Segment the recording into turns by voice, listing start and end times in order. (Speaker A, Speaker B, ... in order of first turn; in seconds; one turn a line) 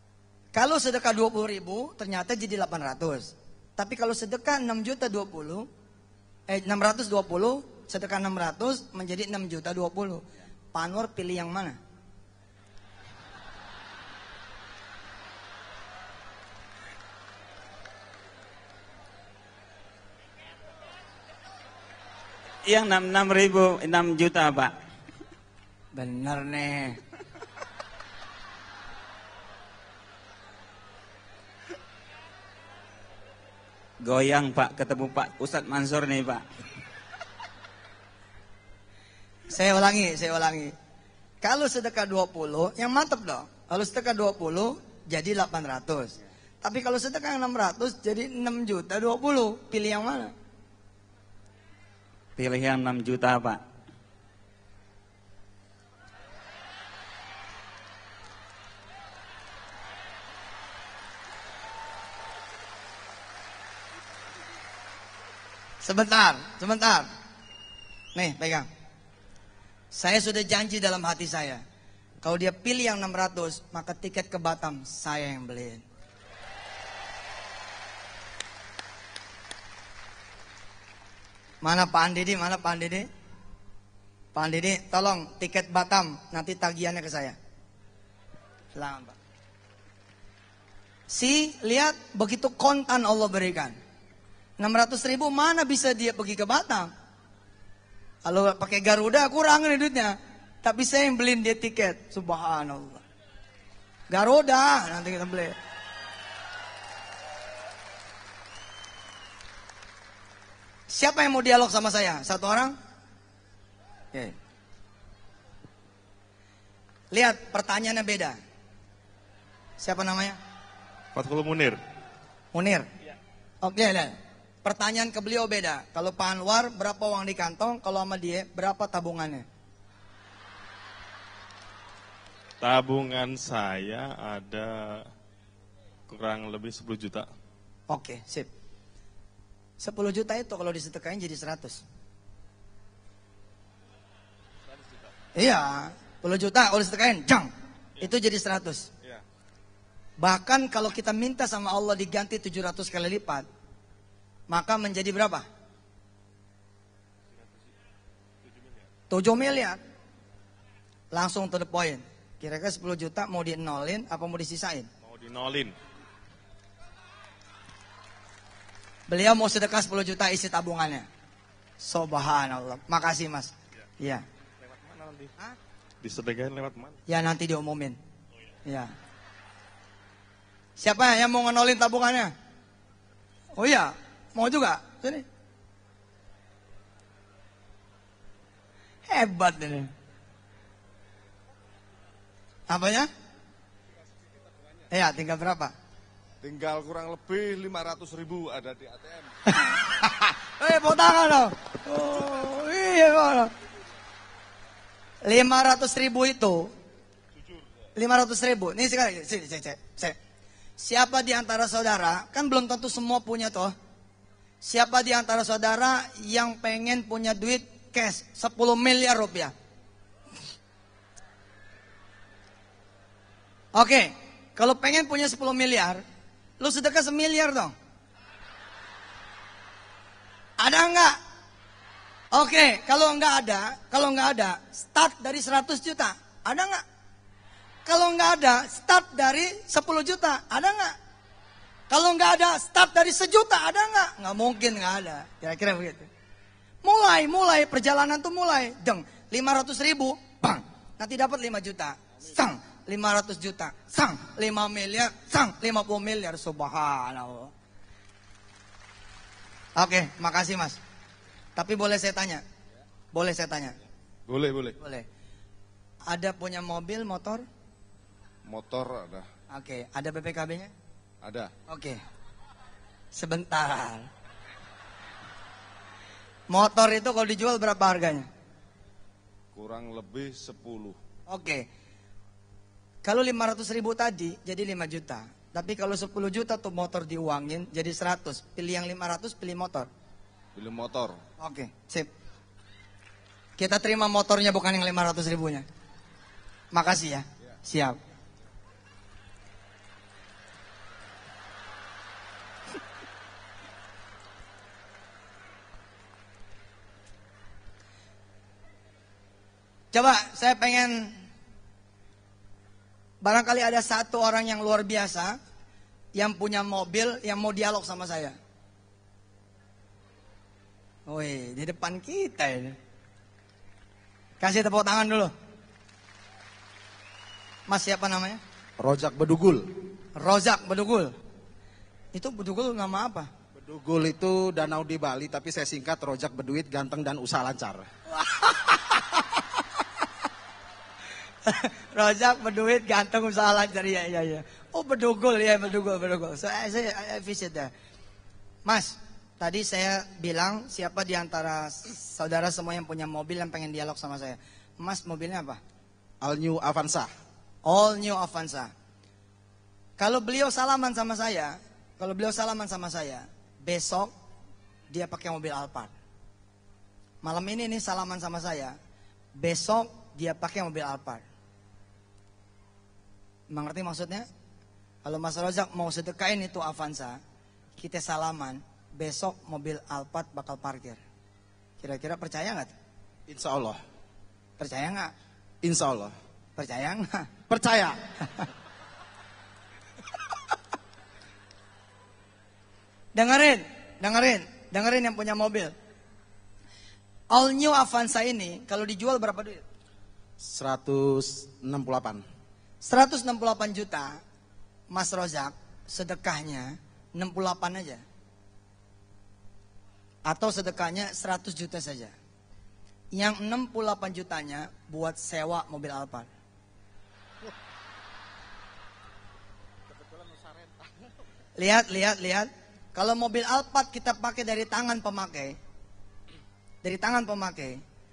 Speaker A: 0.5-5.7
Speaker A: 6.5-10.2
Speaker A: 10.7-11.8
Speaker B: 22.7-24.7
Speaker A: 25.9-27.0
Speaker B: 34.0-36.4
Speaker A: 39.5-40.7
Speaker A: 41.4-50.3
Speaker B: 52.4-53.6
Speaker A: 65.8-67.1
Speaker A: 68.2-68.7
Speaker A: 69.9-71.6
Speaker A: 72.2-75.8
Speaker A: 81.6-83.1
Speaker A: 84.3-87.4
Speaker A: 88.8-89.2
Speaker A: 91.1-93.8
Speaker A: 94.6-96.9
Speaker A: 98.2-103.0
Speaker A: 104.1-105.5
Speaker A: 110.9-112.8
Speaker A: 117.1-118.4
Speaker A: 119.8-120.4
Speaker C: 121.1-121.8
Speaker A: 122.5-122.9
Speaker A: 123.6-129.4
Speaker C: 132.6-135.1
Speaker C: 136.1-137.3
Speaker A: 137.9-138.5
Speaker A: 139.8-141.8
Speaker A: 145.4-148.9
Speaker A: 150.2-153.5
Speaker A: 154.5-155.4
Speaker A: 159.1-159.8
Speaker A: 161.1-164.9
Speaker C: 165.0-165.8
Speaker A: 169.1-171.1
Speaker A: 171.8-174.2
Speaker C: 174.6-175.4
Speaker C: 176.0-177.0
Speaker A: 177.1-178.0
Speaker A: 178.7-178.9
Speaker A: 180.8-182.3
Speaker A: 183.6-185.2
Speaker A: 189.1-189.9
Speaker A: 192.7-193.1
Speaker A: 194.9-195.7
Speaker D: 196.4-199.3
Speaker A: 199.5-203.5
Speaker A: 205.2-206.7
Speaker D: 207.4-207.7
Speaker A: 208.0-210.2
Speaker A: 210.8-213.7
Speaker A: 214.6-219.5
Speaker A: 223.7-226.0
Speaker A: 226.6-227.7
Speaker A: 230.6-231.2
Speaker A: 232.3-236.8
Speaker A: 237.9-241.0
Speaker A: 241.9-246.1
Speaker A: 246.8-257.5
Speaker A: 259.8-260.8
Speaker A: 261.6-262.4
Speaker A: 263.1-263.8
Speaker D: 264.3-264.8
Speaker A: 264.8-265.1
Speaker A: 266.1-267.4
Speaker D: 268.5-269.3
Speaker A: 269.5-270.7
Speaker D: 271.2-271.5
Speaker A: 271.7-272.0
Speaker A: 273.1-274.1
Speaker A: 276.5-278.3
Speaker D: 279.5-281.0
Speaker A: 281.3-281.7
Speaker A: 283.1-289.9
Speaker D: 290.6-291.2
Speaker A: 291.4-292.1
Speaker A: 293.6-295.6
Speaker A: 296.7-298.0
Speaker A: 309.9-311.2
Speaker A: 313.2-315.4
Speaker A: 316.1-318.4
Speaker A: 321.1-322.8
Speaker A: 324.4-325.3
Speaker A: 327.7-328.4
Speaker E: 328.8-329.7
Speaker A: 330.2-331.1
Speaker A: 332.1-333.3
Speaker E: 333.6-337.9
Speaker A: 338.1-339.2
Speaker A: 341.4-347.7
Speaker A: 348.7-355.6
Speaker E: 356.2-357.1
Speaker A: 357.6-358.7
Speaker A: 360.0-364.1
Speaker A: 364.9-365.9
Speaker A: 367.2-368.8
Speaker A: 369.4-371.2
Speaker A: 373.5-374.3
Speaker A: 375.1-377.2
Speaker A: 377.8-381.0
Speaker A: 381.8-382.7
Speaker E: 383.3-383.8
Speaker A: 384.6-385.1
Speaker E: 385.6-386.1
Speaker A: 386.6-387.3
Speaker E: 387.5-388.0
Speaker A: 393.1-395.7
Speaker A: 397.3-399.6
Speaker E: 400.4-402.2
Speaker A: 402.8-404.2
Speaker A: 404.9-408.0
Speaker A: 410.3-412.1
Speaker A: 413.1-416.3
Speaker E: 419.9-421.1
Speaker A: 421.6-425.6
Speaker A: 426.8-427.8